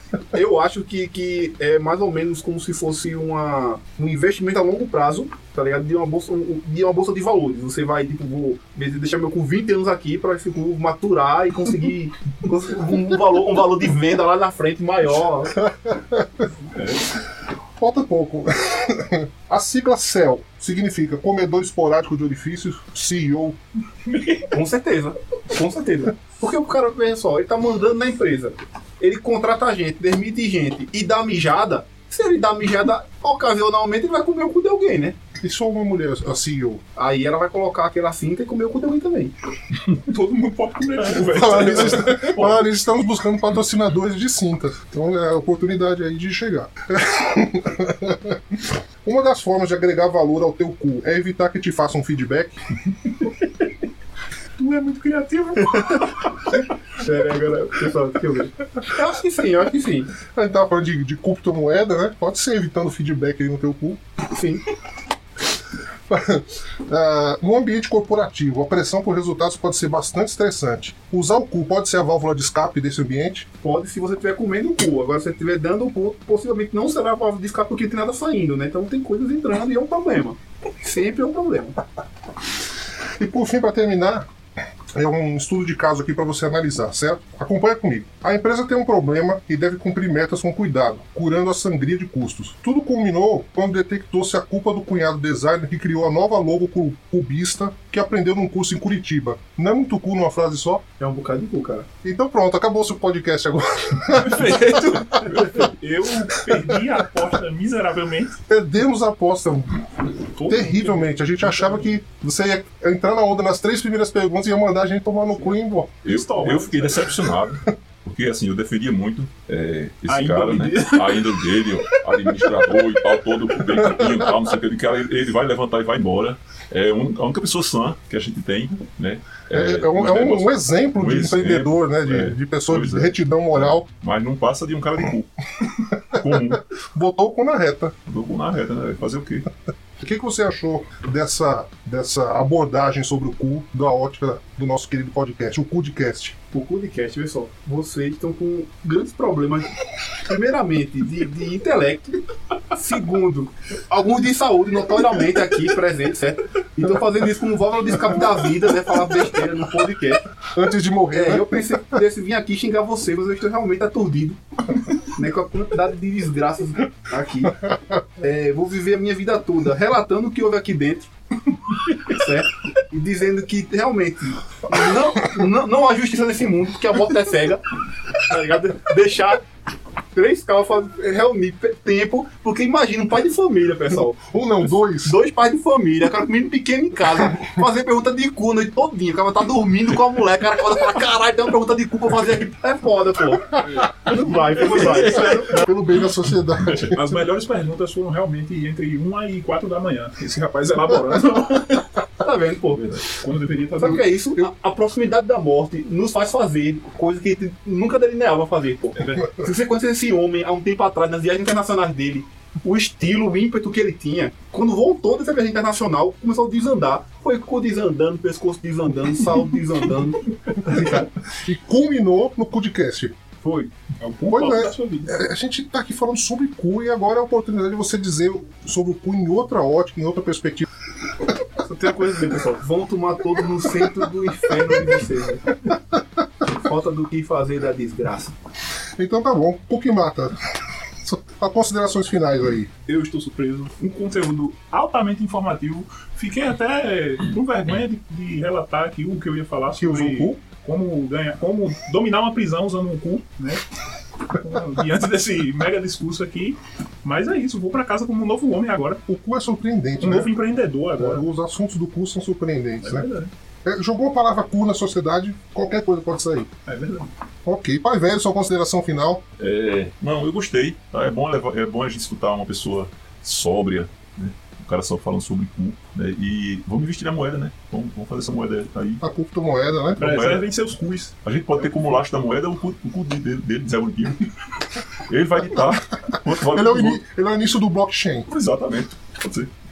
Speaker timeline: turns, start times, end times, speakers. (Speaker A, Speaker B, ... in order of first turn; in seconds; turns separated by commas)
Speaker A: 0.3-15.6, Speaker B: 15.6-16.4, Speaker B: 17.8-23.6, Speaker A: 24.5-35.2, Speaker B: 35.4-36.8, Speaker A: 37.0-39.3, Speaker C: 39.9-42.6, Speaker B: 41.2-52.5, Speaker D: 41.4-42.2, Speaker C: 54.6-56.4, Speaker A: 55.6-60.2, Speaker B: 60.2-64.0, Speaker A: 64.2-64.6, Speaker B: 66.1-73.5, Speaker A: 73.6-81.8, Speaker B: 83.2-84.3, Speaker B: 84.9-100.8, Speaker A: 101.0-101.9, Speaker B: 102.0-105.2, Speaker C: 104.2-108.3, Speaker B: 108.5-116.0, Speaker C: 110.4-110.9, Speaker D: 116.0-136.6, Speaker C: 116.0-116.9, Speaker C: 120.1-122.9, Speaker B: 124.0-124.3, Speaker B: 129.5-133.8, Speaker B: 135.9-137.9, Speaker D: 138.1-139.5, Speaker B: 140.0-146.3, Speaker A: 146.5-152.2, Speaker A: 152.7-160.2, Speaker B: 160.5-161.9, Speaker A: 161.1-164.4, Speaker A: 165.0-171.1, Speaker A: 171.9-177.6, Speaker A: 178.2-179.4, Speaker A: 180.1-184.3, Speaker B: 184.3-185.2, Speaker A: 185.0-195.7, Speaker C: 193.6-193.9, Speaker B: 195.4-197.1, Speaker C: 196.8-201.9, Speaker A: 202.0-202.8, Speaker D: 202.7-203.2, Speaker C: 203.2-204.0, Speaker A: 203.8-221.2, Speaker B: 221.4-223.1, Speaker A: 223.4-223.7, Speaker C: 224.0-225.2, Speaker B: 224.3-230.7, Speaker A: 231.6-235.6, Speaker B: 235.7-236.0, Speaker A: 236.4-238.3, Speaker B: 239.0-240.3, Speaker B: 241.0-242.7, Speaker C: 242.9-253.6, Speaker B: 249.8-250.4, Speaker C: 254.2-259.0, Speaker B: 259.1-260.3, Speaker C: 260.0-261.3, Speaker B: 260.9-263.1, Speaker C: 262.8-263.3, Speaker B: 263.6-266.5, Speaker C: 266.6-267.1, Speaker B: 267.4-269.2, Speaker D: 269.4-279.0, Speaker B: 279.0-280.1, Speaker C: 280.0-281.1, Speaker D: 280.0-280.5, Speaker D: 281.2-284.2, Speaker D: 285.0-287.0, Speaker B: 286.3-288.3, Speaker D: 288.3-289.5